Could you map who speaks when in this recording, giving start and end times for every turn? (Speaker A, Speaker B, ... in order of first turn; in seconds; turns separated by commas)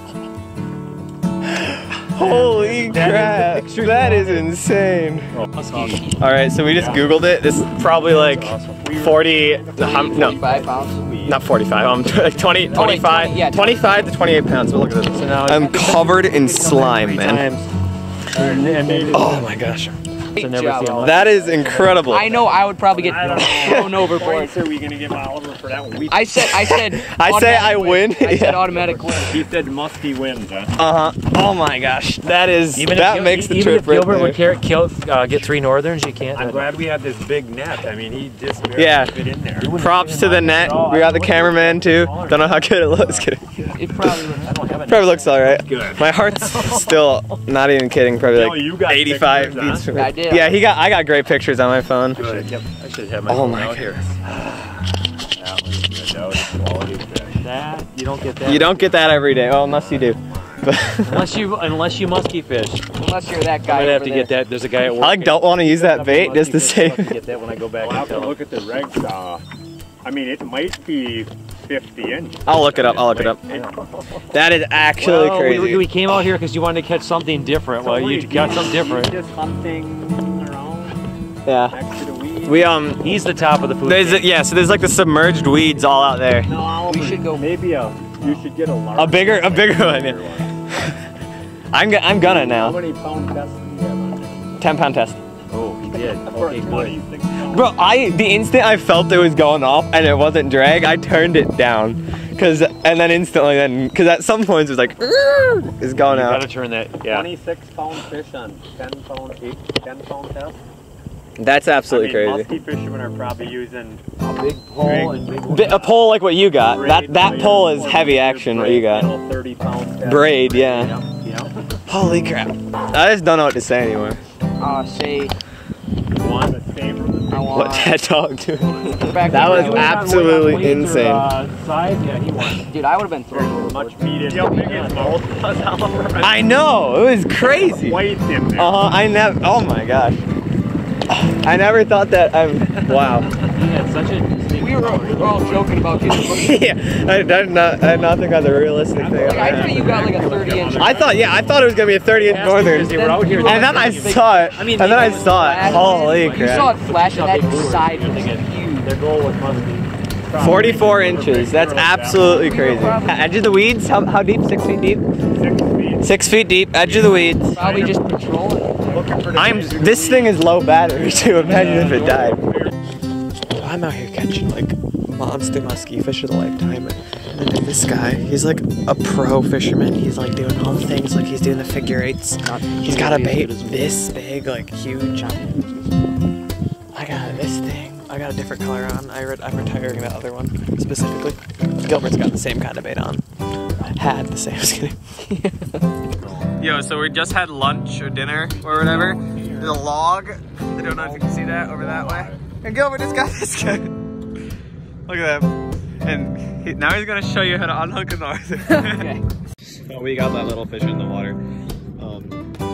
Speaker A: 1.4-5.3, Speaker B: 2.2-4.3, Speaker C: 2.2-3.4, Speaker C: 5.3-6.0, Speaker B: 5.5-6.2, Speaker A: 6.2-10.4, Speaker C: 6.7-7.1, Speaker B: 7.8-8.8, Speaker C: 8.8-11.4, Speaker D: 9.8-11.0, Speaker A: 11.2-17.5, Speaker D: 12.7-13.9, Speaker B: 15.1-17.7, Speaker B: 18.3-19.5, Speaker C: 18.3-19.5, Speaker A: 19.1-19.9, Speaker D: 20.3-21.2, Speaker B: 20.4-22.4, Speaker A: 21.0-22.3, Speaker C: 21.5-21.8, Speaker D: 22.0-24.6, Speaker C: 22.9-26.4, Speaker B: 23.1-23.4, Speaker A: 23.4-24.0, Speaker D: 26.1-29.4, Speaker A: 26.4-28.7, Speaker C: 28.7-30.7, Speaker A: 30.8-34.4, Speaker B: 32.7-36.9, Speaker C: 36.3-39.7, Speaker A: 38.7-39.2, Speaker B: 39.5-41.0, Speaker A: 39.7-43.5, Speaker C: 40.7-43.3, Speaker D: 43.7-44.5, Speaker A: 44.0-44.3, Speaker B: 44.4-45.5, Speaker C: 44.4-46.0, Speaker A: 44.9-52.5, Speaker C: 48.3-49.9, Speaker D: 49.9-50.6, Speaker B: 52.2-54.2, Speaker C: 52.2-52.6, Speaker A: 53.3-54.0, Speaker C: 55.4-57.5, Speaker B: 57.4-58.7, Speaker C: 58.2-59.0, Speaker A: 58.4-61.3, Speaker C: 59.7-60.7, Speaker B: 61.0-62.8, Speaker D: 63.0-64.3, Speaker B: 63.6-68.4, Speaker A: 64.9-67.1, Speaker C: 67.8-69.4, Speaker C: 70.0-74.0, Speaker A: 72.5-73.4, Speaker B: 72.7-73.7, Speaker A: 74.3-75.9, Speaker B: 75.0-79.2, Speaker C: 77.8-81.0, Speaker A: 81.5-81.8, Speaker C: 81.7-82.7, Speaker A: 82.4-83.1, Speaker B: 83.0-84.3, Speaker A: 83.8-86.5, Speaker C: 86.4-90.5, Speaker D: 86.8-87.5, Speaker A: 89.0-91.0, Speaker A: 91.7-92.8, Speaker C: 92.2-94.6, Speaker A: 94.6-95.2, Speaker B: 95.5-97.0, Speaker C: 96.2-97.8, Speaker A: 97.5-106.5, Speaker B: 105.9-107.3, Speaker C: 107.0-110.6, Speaker A: 111.4-112.5, Speaker C: 111.9-114.0, Speaker B: 114.2-115.9, Speaker C: 114.8-115.8, Speaker A: 115.5-119.1, Speaker C: 116.6-121.4, Speaker A: 120.0-120.9, Speaker B: 120.7-121.5, Speaker A: 121.9-124.2, Speaker D: 124.6-125.3, Speaker C: 126.1-127.7, Speaker D: 127.3-128.0, Speaker A: 127.5-131.3, Speaker D: 128.6-130.0, Speaker B: 129.3-132.6, Speaker D: 132.6-134.8, Speaker C: 133.3-136.4, Speaker B: 134.5-135.2, Speaker A: 136.2-138.0, Speaker C: 137.4-138.9, Speaker A: 138.5-140.2, Speaker A: 141.1-143.3, Speaker B: 143.3-145.9, Speaker D: 144.5-146.5, Speaker A: 146.1-149.9, Speaker C: 148.9-151.9, Speaker D: 149.2-151.1, Speaker B: 149.7-150.8, Speaker A: 150.8-156.7, Speaker B: 152.1-158.4, Speaker D: 152.7-158.9, Speaker C: 158.8-162.4, Speaker A: 160.4-165.0, Speaker D: 162.2-163.3, Speaker C: 165.3-166.2, Speaker A: 166.0-167.6, Speaker C: 166.8-167.9, Speaker D: 167.5-169.0, Speaker C: 168.9-172.7, Speaker A: 169.3-172.4, Speaker B: 171.4-172.2, Speaker A: 173.5-185.4, Speaker D: 182.4-183.9, Speaker D: 185.1-185.8, Speaker A: 186.9-193.2, Speaker A: 193.8-194.9, Speaker D: 195.2-195.8, Speaker C: 196.2-196.6, Speaker A: 196.6-203.9, Speaker C: 198.5-199.8, Speaker C: 200.8-202.4, Speaker A: 205.1-209.1, Speaker D: 208.7-209.2, Speaker A: 209.8-211.4, Speaker A: 212.0-212.4